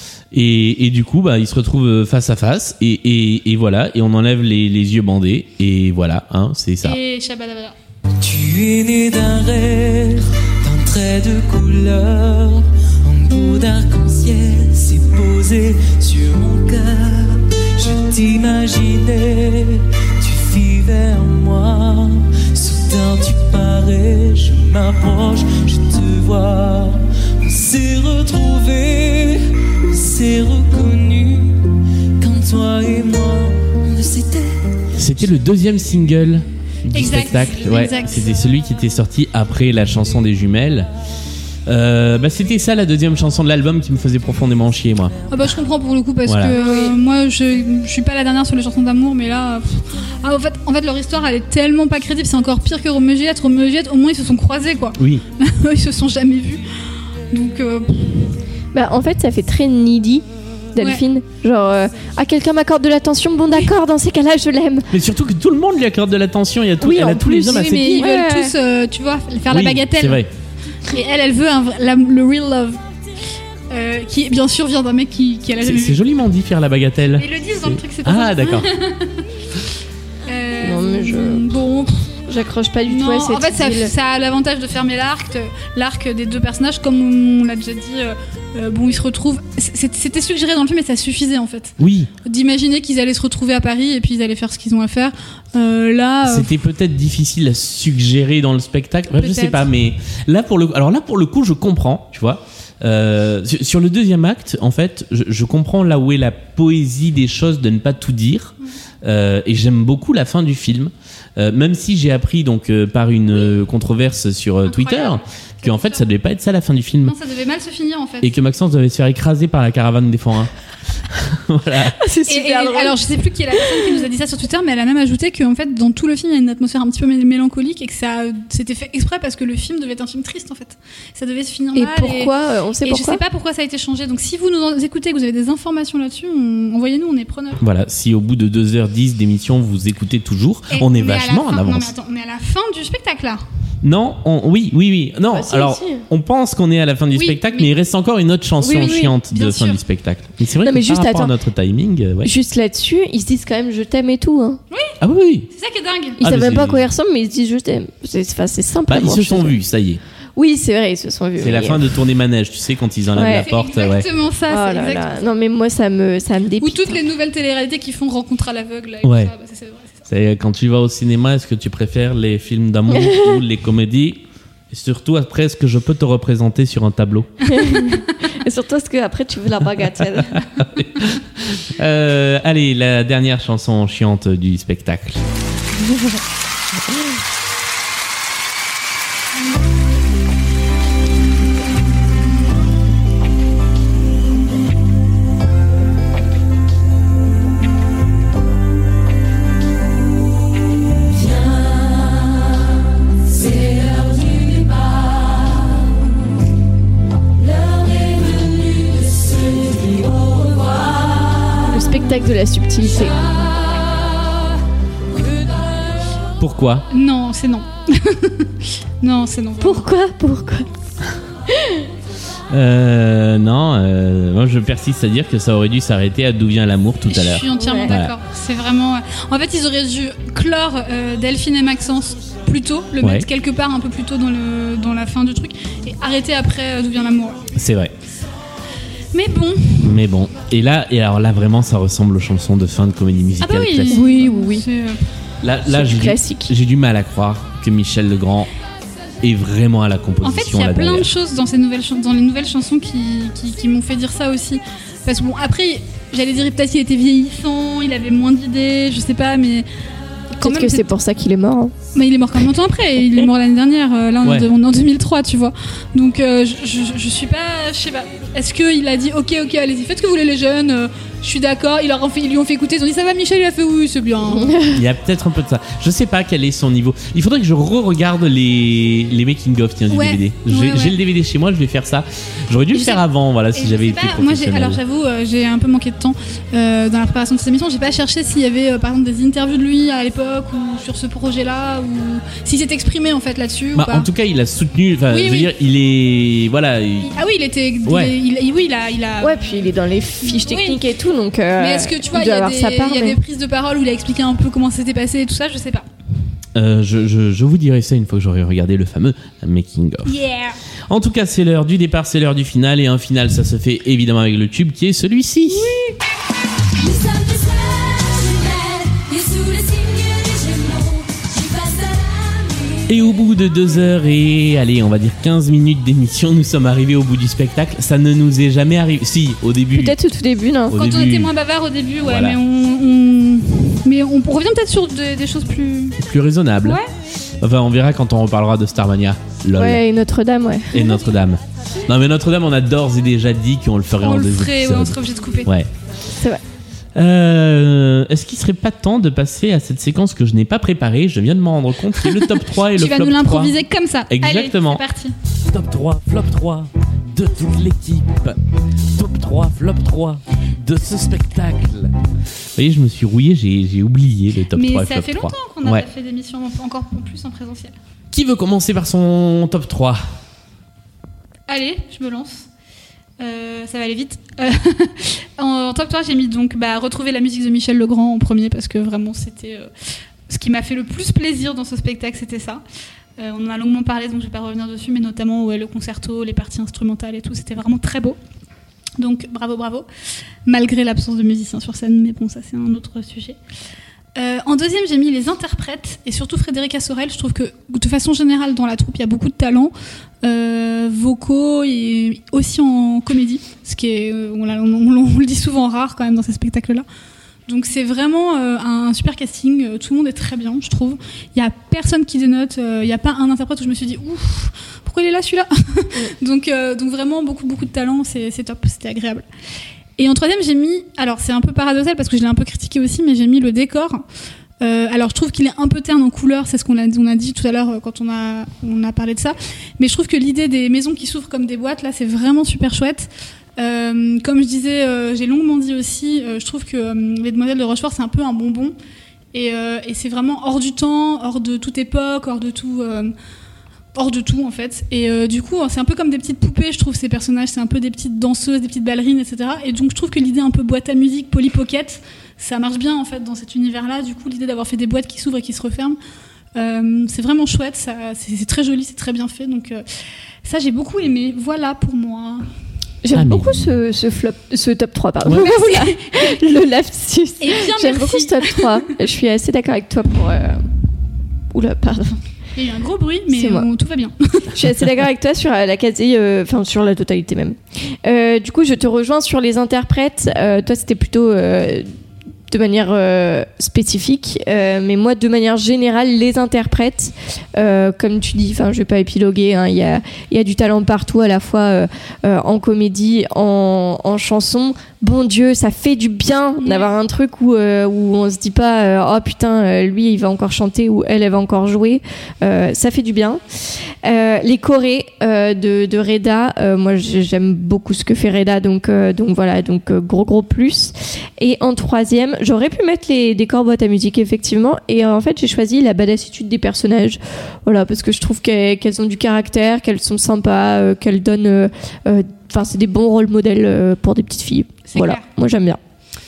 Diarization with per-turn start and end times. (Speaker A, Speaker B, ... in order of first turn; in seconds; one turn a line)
Speaker A: 0.3-7.0
Speaker B: 6.8-7.8
Speaker C: 8.2-31.6
Speaker C: 32.2-34.8
Speaker A: 34.9-40.9
Speaker B: 36.9-38.3
Speaker A: 41.7-45.1
Speaker B: 45.3-56.6
Speaker A: 46.3-46.6
Speaker D: 46.5-47.0
Speaker A: 55.0-55.2
Speaker B: 57.3-58.4
Speaker D: 58.7-64.9
Speaker A: 64.9-68.0
Speaker D: 66.8-68.5
Speaker B: 67.4-70.2
Speaker A: 69.5-70.3
Speaker B: 70.9-72.8
Speaker B: 73.7-76.0
Speaker A: 75.6-78.7
Speaker B: 77.2-79.2
Speaker B: 80.3-82.1
Speaker D: 80.6-81.5
Speaker D: 82.3-83.9
Speaker B: 82.9-96.5
Speaker A: 91.8-92.1
Speaker A: 96.2-117.2
Speaker B: 99.2-99.7
Speaker B: 114.7-116.0
Speaker B: 117.0-118.3
Speaker A: 118.2-120.5
Speaker A: 121.1-122.0
Speaker D: 122.0-123.0
Speaker B: 122.3-132.3
Speaker D: 123.6-123.9
Speaker D: 131.7-133.2
Speaker B: 132.8-137.6
Speaker A: 137.6-141.9
Speaker B: 140.7-143.4
Speaker A: 143.8-152.3
Speaker D: 145.3-146.0
Speaker B: 147.1-147.7
Speaker D: 148.6-149.1
Speaker B: 148.7-149.8
Speaker D: 150.6-151.3
Speaker D: 152.2-154.6
Speaker A: 155.0-155.5
Speaker B: 155.5-156.2
Speaker A: 156.2-156.8
Speaker D: 156.2-159.6
Speaker A: 158.9-160.0
Speaker D: 160.4-161.9
Speaker A: 161.4-164.1
Speaker D: 163.1-163.5
Speaker B: 163.3-165.1
Speaker D: 164.5-167.0
Speaker B: 166.6-169.9
Speaker A: 169.0-169.3
Speaker A: 170.1-177.3
Speaker D: 172.9-173.4
Speaker D: 177.5-180.4
Speaker A: 180.6-185.2
Speaker E: 203.7-204.9
Speaker E: 208.3-208.8
Speaker E: 209.9-210.6
Speaker D: 211.6-213.2
Speaker A: 216.4-216.9
Speaker B: 216.9-219.9
Speaker D: 219.6-220.7
Speaker D: 221.5-221.9
Speaker A: 222.5-228.1
Speaker B: 227.1-237.4
Speaker D: 227.5-227.9
Speaker A: 237.6-237.9
Speaker B: 239.1-239.9
Speaker A: 239.8-244.1
Speaker B: 243.4-245.0
Speaker D: 243.9-244.7
Speaker A: 245.4-248.5
Speaker D: 245.7-246.5
Speaker A: 249.2-251.1
Speaker B: 250.2-259.6
Speaker D: 260.4-261.7
Speaker B: 260.4-260.9
Speaker B: 261.9-274.5
Speaker A: 264.2-264.5
Speaker D: 274.3-274.8
Speaker A: 274.7-284.8
Speaker B: 279.9-281.0
Speaker B: 282.7-283.0
Speaker B: 283.5-294.1
Speaker A: 293.7-297.1
Speaker B: 295.1-295.5
Speaker B: 297.0-299.6
Speaker A: 297.9-298.1
Speaker D: 299.2-303.2
Speaker B: 300.2-300.8
Speaker B: 301.6-305.9
Speaker A: 306.6-310.2
Speaker B: 310.1-310.6
Speaker A: 310.9-315.7
Speaker B: 315.5-316.0
Speaker E: 316.8-322.8
Speaker A: 322.9-329.9
Speaker D: 329.7-330.8
Speaker A: 330.7-331.3
Speaker B: 330.8-336.0
Speaker A: 332.0-332.4
Speaker A: 336.0-336.8
Speaker A: 337.4-339.8
Speaker D: 339.6-341.0
Speaker A: 340.7-345.7
Speaker B: 344.0-345.5
Speaker A: 346.9-353.6
Speaker B: 352.8-355.1
Speaker A: 354.1-354.8
Speaker A: 355.5-358.4
Speaker A: 358.9-361.9
Speaker A: 362.6-365.8
Speaker B: 364.5-367.7
Speaker A: 368.1-370.0
Speaker B: 371.5-372.4
Speaker B: 373.2-379.7
Speaker B: 380.3-382.6
Speaker B: 383.2-388.2
Speaker B: 389.0-389.9
Speaker B: 390.4-393.4
Speaker B: 394.1-406.9
Speaker B: 407.5-419.2
Speaker B: 420.0-424.0
Speaker B: 424.6-438.7
Speaker B: 439.3-443.1
Speaker B: 443.9-456.0
Speaker B: 456.6-459.9
Speaker B: 460.4-462.4
Speaker D: 463.0-470.6
Speaker A: 463.1-463.6
Speaker B: 465.4-465.9
Speaker B: 467.4-468.9
Speaker D: 471.5-472.2
Speaker B: 472.6-474.6
Speaker D: 473.3-473.7
Speaker D: 474.5-481.9
Speaker D: 482.5-503.4
Speaker B: 496.6-496.9
Speaker D: 504.0-525.8
Speaker B: 524.9-525.3